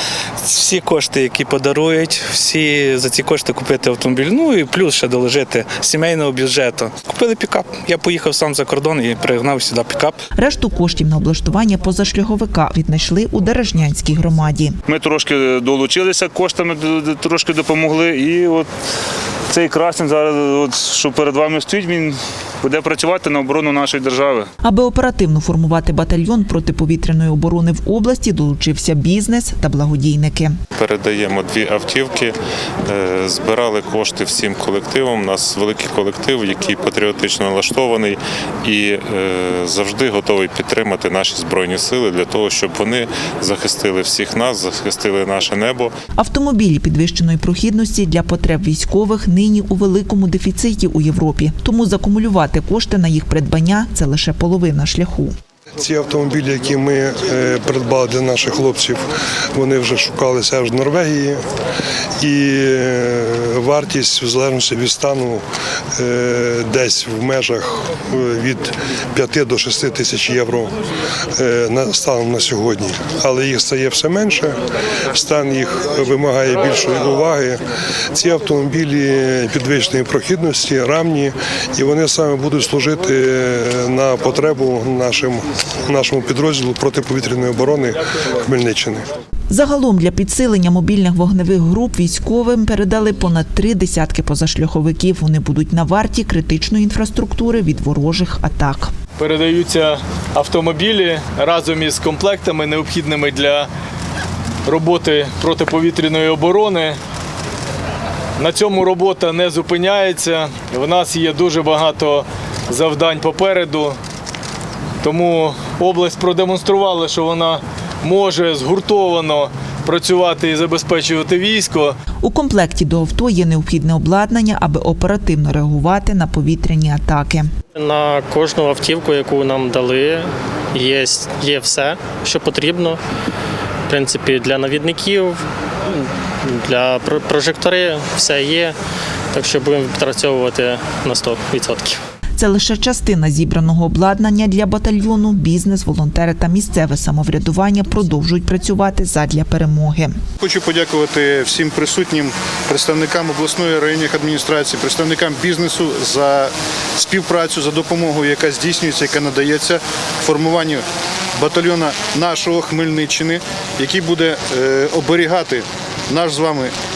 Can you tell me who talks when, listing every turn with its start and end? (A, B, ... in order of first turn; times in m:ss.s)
0:00.4-0:10.2 A
0:10.4-0:14.8 B
0:14.9-0:18.7 C
0:19.5-0:24.5 C
0:24.6-0:30.6 B
0:30.8-0:45.9 D
0:46.2-0:55.3 B
0:55.8-1:01.4 E
1:02.2-1:05.4 E
1:06.0-1:10.7 E
1:11.4-1:14.6 E
1:15.1-1:17.6 E
1:18.1-1:29.1 E
1:29.5-1:38.9 B
1:39.2-1:43.7 F
1:44.6-1:47.0 F
1:48.4-1:54.0 F
1:55.0-2:02.0 F
2:02.2-2:07.5 B
2:07.7-2:13.0 G
2:13.9-2:18.8 G
2:19.3-2:22.0 G
2:22.4-2:30.2 B
2:30.4-2:40.8 H
2:41.4-2:46.7 H